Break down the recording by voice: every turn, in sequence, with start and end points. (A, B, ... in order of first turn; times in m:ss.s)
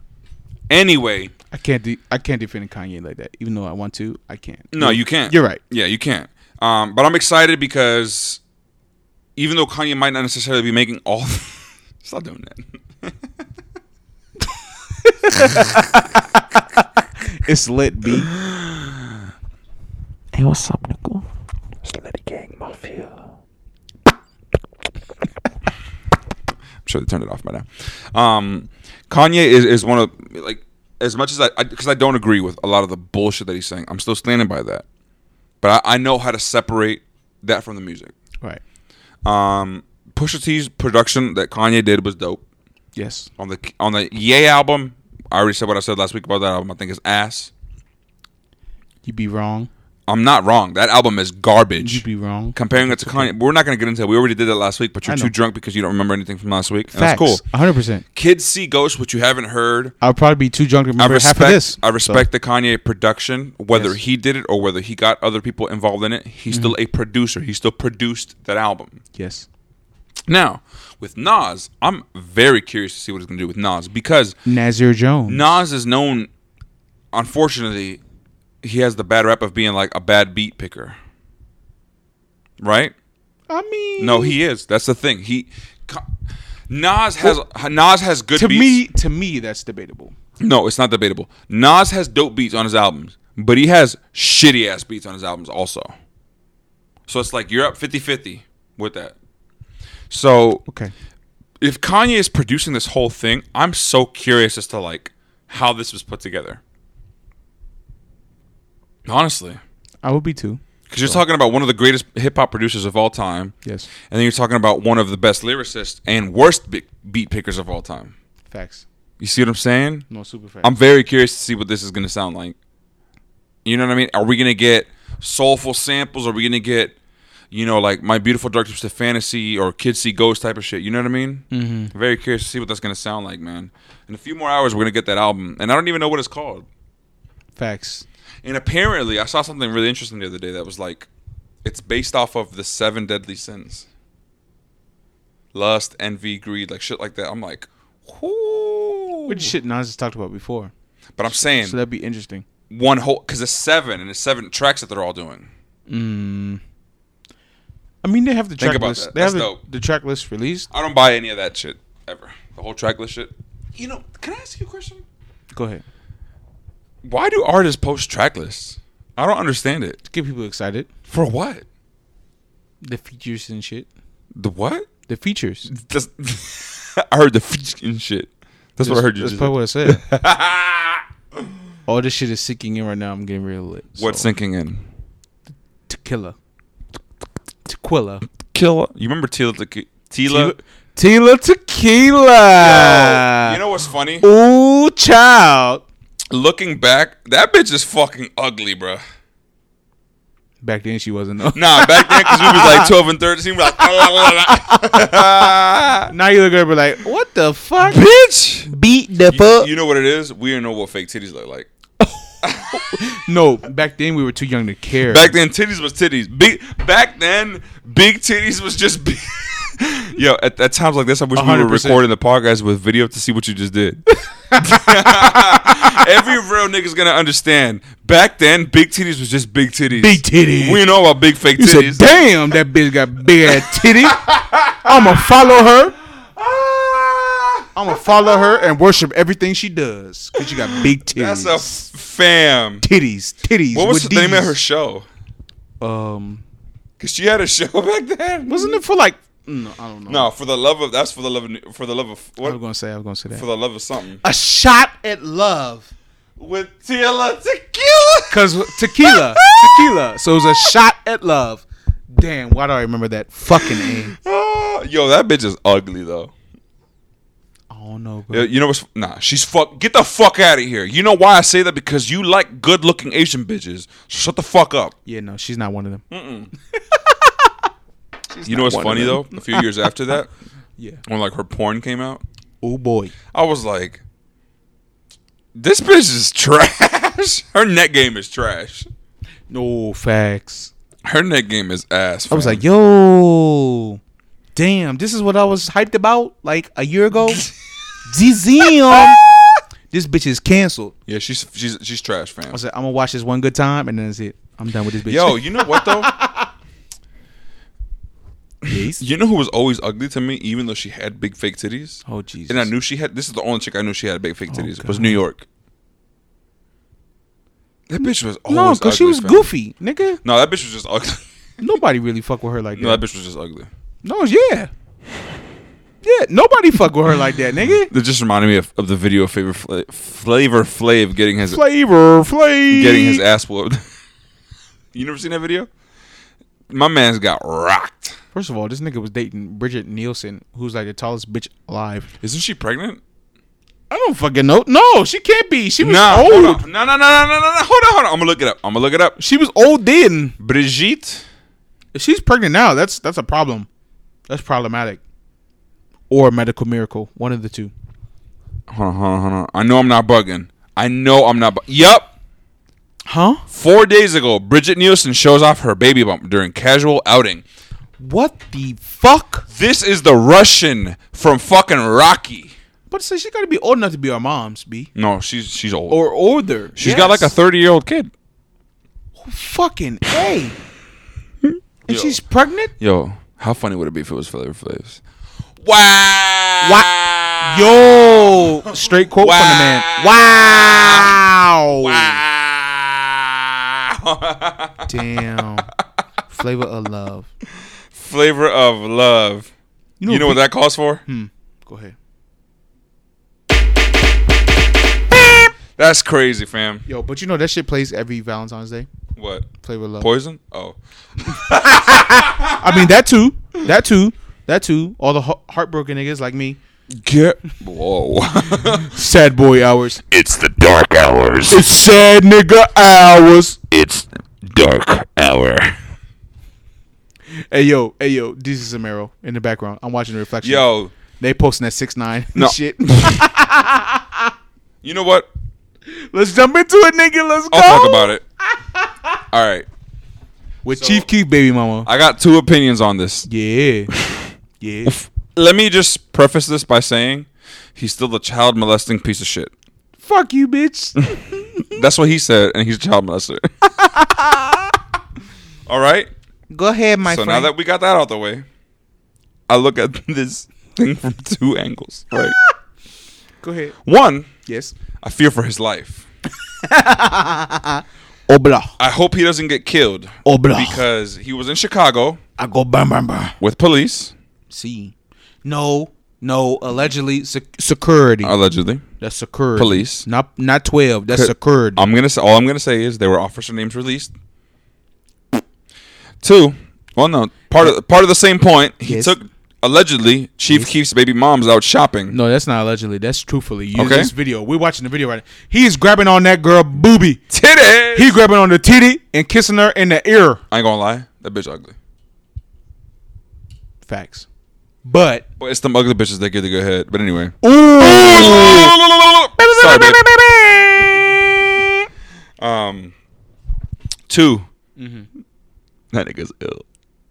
0:00.7-0:01.3 A
0:01.5-0:05.6 B
0:04.7-0:08.4 A
0:09.4-0:13.2 A
0:15.0-0:18.3 B
0:20.3-0:21.2 C
0:21.8-0:23.2 C
0:26.8-0:34.8 A
0:35.6-0:38.1 A
0:39.2-0:42.4 A
0:43.0-0:43.3 B
0:43.4-0:47.5 A
0:49.0-0:49.7 B
0:50.1-0:57.4 A
0:51.8-0:53.3 B
0:55.1-0:55.3 B
0:56.9-0:58.0 B
0:58.2-1:00.0 A
1:00.0-1:02.3 B
1:01.0-1:09.0 A
1:03.7-1:04.0 B
1:06.5-1:06.8 B
1:09.2-1:09.5 B
1:10.3-1:14.4 A
1:14.4-1:15.6 B
1:15.3-1:16.3 A
1:17.1-1:18.0 A
1:18.6-1:21.0 A
1:22.6-1:22.9 A
1:23.5-1:24.4 B
1:24.0-1:26.1 A
1:26.7-1:28.8 A
1:28.4-1:30.1 B
1:30.4-1:35.9 A
1:37.1-1:39.2 A
1:40.1-1:40.6 A
1:40.7-1:40.9 B
1:41.6-1:46.6 A
1:49.1-1:49.6 A
1:50.0-1:51.2 B
1:50.9-1:53.5 A
1:53.6-1:53.9 B
1:54.1-1:58.1 A
1:58.5-1:58.8 B
1:59.2-2:00.1 A
2:00.1-2:00.7 B
2:00.6-2:02.6 A
2:03.6-2:07.0 A
2:07.5-2:16.7 A
2:11.5-2:11.9 B
2:17.6-2:18.1 B
2:18.4-2:21.1 A
2:21.6-2:23.9 A
2:25.5-2:29.5 A
2:29.3-2:30.7 B
2:31.2-2:31.8 A
2:31.3-2:32.4 B
2:32.7-2:35.5 A
2:35.9-2:36.6 B
2:38.0-2:40.7 B
2:38.6-2:39.6 A
2:40.7-2:45.0 A
2:45.5-2:45.8 B
2:47.0-2:50.0 A
2:50.0-2:50.9 B
2:51.1-2:51.7 A
2:52.8-2:53.9 B
2:54.4-2:54.9 A
2:55.1-2:55.7 B
2:55.7-3:01.0 A
2:58.8-3:00.0 B
3:01.9-3:04.3 B
3:04.0-3:04.8 A
3:05.9-3:06.4 B
3:07.6-3:08.3 B
3:08.5-3:10.6 A
3:10.3-3:13.6 B
3:12.6-3:14.3 A
3:14.2-3:15.8 B
3:16.3-3:19.0 A
3:20.6-3:22.9 B
3:21.5-3:26.1 A
3:24.2-3:25.4 B
3:26.1-3:28.0 B
3:27.8-3:28.7 A
3:28.7-3:29.7 B
3:29.3-3:31.7 A
3:32.4-3:32.8 A
3:32.7-3:35.4 B
3:35.1-3:52.1 A
3:41.4-3:42.0 B
3:44.5-3:46.0 B
3:49.9-3:50.8 B
3:51.6-3:56.0 B
3:53.4-3:55.2 A
3:56.4-3:58.7 A
3:57.8-4:01.9 B
4:00.4-4:02.9 A
4:02.8-4:04.6 B
4:03.7-4:05.1 A
4:05.8-4:06.4 B
4:07.0-4:08.8 A
4:08.5-4:10.3 B
4:10.1-4:12.6 A
4:12.4-4:13.4 B
4:13.3-4:14.2 A
4:14.2-4:15.9 B
4:16.4-4:20.0 A
4:18.3-4:24.2 B
4:23.5-4:26.3 A
4:27.7-4:28.5 B
4:28.3-4:35.0 A
4:35.0-4:36.0 B
4:36.1-4:36.5 A
4:36.8-4:37.5 B
4:38.3-4:39.7 B
4:38.5-4:40.3 A
4:40.8-4:41.0 B
4:41.1-4:42.2 A
4:42.6-4:43.2 B
4:43.3-4:44.0 A
4:45.6-4:48.9 A
4:49.5-4:50.7 B
4:51.0-4:52.6 A
4:52.3-4:54.0 B
4:54.6-4:57.5 B
4:58.1-4:59.3 B
4:59.9-5:01.0 B
5:01.1-5:02.6 A
5:02.5-5:06.5 B
5:05.1-5:06.1 A
5:08.7-5:15.5 A
5:08.7-5:09.0 B
5:12.1-5:12.7 B
5:14.5-5:15.2 B
5:17.9-5:19.5 A
5:18.5-5:20.2 B
5:20.2-5:21.2 A
5:21.6-5:23.0 B
5:22.8-5:23.7 A
5:24.0-5:24.7 B
5:26.0-5:27.9 B
5:27.9-5:31.6 A
5:31.4-5:33.2 B
5:32.7-5:33.8 A
5:34.9-5:35.7 A
5:36.7-5:38.2 A
5:38.3-5:42.1 B
5:42.2-5:43.0 A
5:43.9-5:46.6 B
5:45.8-5:49.2 A
5:49.2-5:50.4 B
5:50.4-5:51.2 A
5:51.9-5:53.7 B
5:54.3-5:55.0 B
5:56.1-5:57.7 B
5:58.7-6:02.2 A
6:03.1-6:03.4 B
6:03.5-6:07.4 A
6:08.0-6:09.5 B
6:09.5-6:12.6 A
6:12.9-6:14.9 B
6:15.0-6:16.0 A
6:15.9-6:17.3 B
6:16.8-6:18.1 A
6:19.2-6:20.6 B
6:21.4-6:22.2 A
6:21.9-6:22.7 B
6:22.8-6:25.0 A
6:25.6-6:31.2 A
6:26.6-6:32.2 B
6:31.8-6:34.9 A
6:34.9-6:35.7 B
6:36.3-6:37.3 B
6:37.9-6:39.5 A
6:40.0-6:40.5 B
6:40.1-6:41.0 A
6:41.0-6:42.0 B
6:45.1-6:46.8 A
6:46.9-6:48.9 B
6:49.2-6:52.8 A
6:49.6-6:50.1 B
6:51.5-6:56.6 B
6:56.9-6:59.0 A
6:58.7-7:00.0 B
7:00.1-7:01.6 A
7:01.5-7:03.6 B
7:03.7-7:05.8 A
7:07.5-7:14.3 B
7:10.4-7:10.9 A
7:12.4-7:13.2 A
7:14.8-7:15.3 A
7:15.9-7:19.0 B
7:17.5-7:18.2 A
7:19.3-7:19.7 A
7:20.6-7:21.9 B
7:20.7-7:21.1 A
7:21.8-7:23.3 A
7:23.3-7:23.9 B
7:23.9-7:24.2 A
7:24.6-7:25.0 B
7:24.9-7:29.5 A
7:30.0-7:31.8 B
7:31.7-7:33.7 A
7:33.8-7:34.6 B
7:35.7-7:36.1 A
7:36.5-7:37.5 B
7:37.0-7:38.4 A
7:39.5-7:42.4 A
7:43.4-7:43.8 B
7:43.8-7:44.3 A
7:44.5-7:44.8 B
7:45.0-7:46.1 A
7:46.6-7:48.8 B
7:48.8-7:52.2 A
7:50.2-7:50.8 B
7:52.4-7:53.4 B
7:53.4-7:54.1 A
7:54.5-7:54.9 B
7:55.4-7:58.4 B
7:58.2-7:58.8 A
7:59.0-8:01.9 B
7:59.6-8:00.1 A
8:01.1-8:04.1 A
8:06.2-8:12.2 A
8:08.8-8:09.2 B
8:12.1-8:17.2 B
8:13.8-8:14.1 A
8:17.3-8:18.2 A
8:17.9-8:20.4 B
8:20.5-8:21.8 A
8:23.8-8:24.3 B
8:24.8-8:25.3 B
8:25.4-8:30.0 A
8:27.4-8:28.8 B
8:29.4-8:31.6 B
8:32.4-8:32.9 A
8:34.1-8:34.5 A
8:34.8-8:35.1 B
8:35.9-8:36.6 A